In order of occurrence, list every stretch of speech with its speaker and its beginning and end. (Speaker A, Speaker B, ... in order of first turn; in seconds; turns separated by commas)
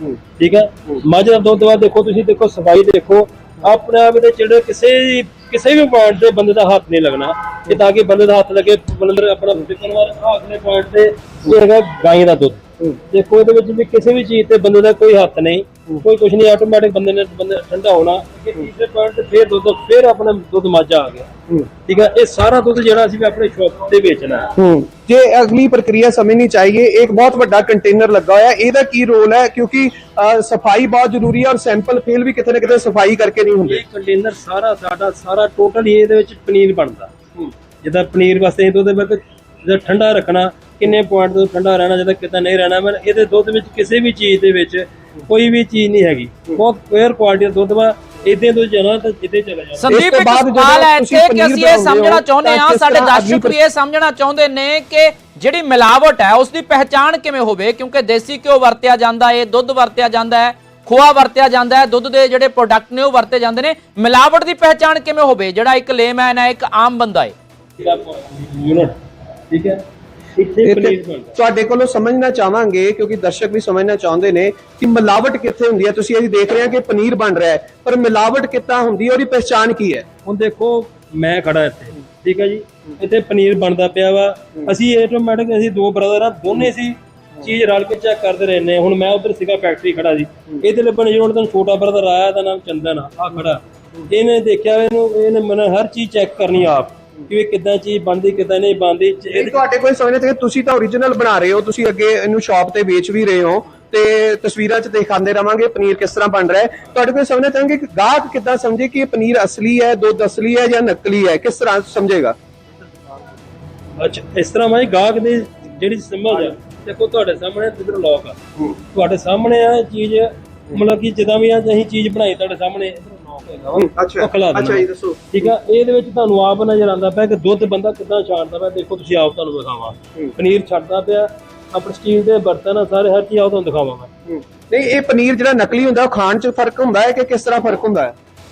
Speaker A: 0.4-21.3, Speaker A: 21.8-24.5, Speaker B: 24.6-33.8, Speaker A: 33.7-37.1, Speaker A: 37.8-50.0, Speaker C: 49.8-67.3, Speaker B: 49.9-53.6, Speaker A: 67.8-69.0, Speaker A: 69.5-69.8, Speaker A: 70.4-71.3, Speaker B: 70.7-80.1, Speaker A: 80.3-99.6, Speaker B: 99.3-112.4, Speaker A: 114.0-118.4, Speaker A: 118.9-134.1, Speaker B: 123.8-125.2, Speaker B: 134.4-138.2